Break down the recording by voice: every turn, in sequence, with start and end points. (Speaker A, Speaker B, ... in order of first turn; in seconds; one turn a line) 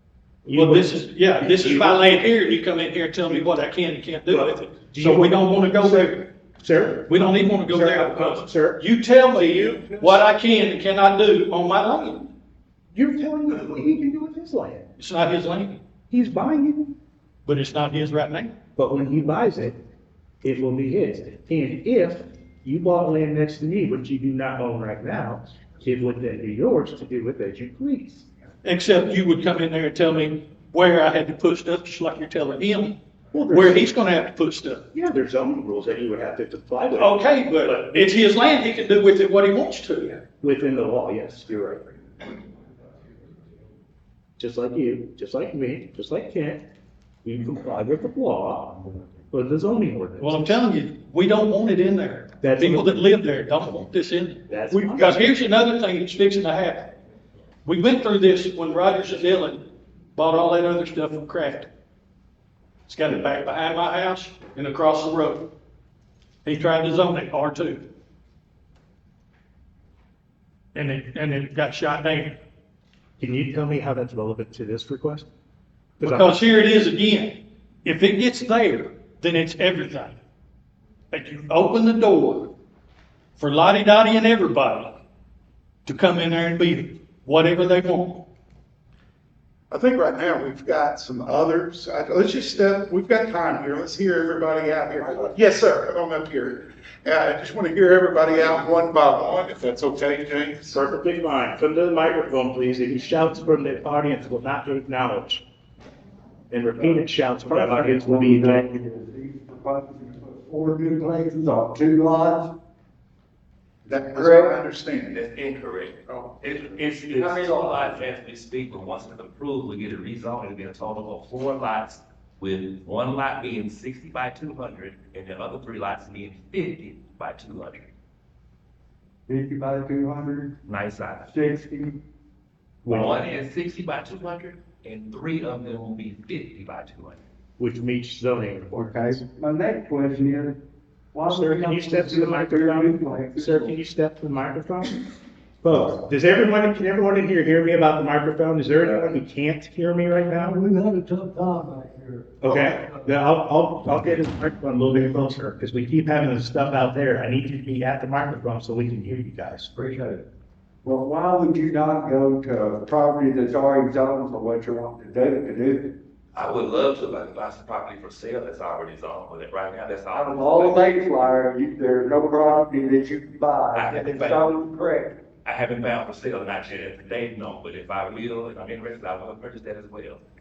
Speaker A: 0.5-2.2
Speaker B: 0.5-6.3
Speaker A: 4.3-8.8
Speaker B: 7.1-12.3
Speaker A: 9.4-10.2
Speaker A: 12.9-14.9
Speaker B: 15.0-15.8
Speaker A: 16.1-17.0
Speaker B: 17.5-18.5
Speaker A: 18.8-19.8
Speaker A: 20.4-28.3
Speaker B: 28.6-34.8
Speaker A: 33.3-34.0
Speaker A: 34.9-38.1
Speaker B: 36.9-40.2
Speaker A: 40.4-41.9
Speaker A: 44.4-46.6
Speaker A: 47.2-50.6
Speaker B: 50.2-57.0
Speaker A: 52.4-53.1
Speaker A: 54.5-55.4
Speaker B: 57.6-61.7
Speaker B: 62.9-65.5
Speaker B: 66.5-67.8
Speaker B: 70.7-72.4
Speaker A: 73.2-75.3
Speaker A: 76.0-76.4
Speaker B: 76.0-80.2
Speaker B: 81.1-82.5
Speaker B: 83.4-85.0
Speaker B: 85.9-88.2
Speaker C: 89.7-100.8
Speaker A: 100.7-105.4
Speaker A: 106.5-108.7
Speaker D: 107.4-112.5
Speaker C: 113.9-115.2
Speaker D: 114.1-114.6
Speaker E: 115.1-127.9
Speaker C: 116.1-116.3
Speaker D: 117.2-117.9
Speaker D: 129.3-130.6
Speaker E: 130.7-131.3
Speaker D: 131.2-132.0
Speaker A: 132.8-133.3
Speaker E: 132.9-137.2
Speaker A: 137.6-139.2
Speaker D: 138.8-140.6
Speaker D: 141.1-143.8
Speaker A: 141.3-145.0
Speaker A: 145.6-150.6
Speaker D: 150.4-152.9
Speaker A: 152.4-159.7
Speaker D: 159.8-160.2
Speaker D: 160.8-166.0
Speaker E: 166.3-170.8
Speaker D: 170.1-175.2
Speaker E: 173.8-174.5
Speaker E: 175.4-180.2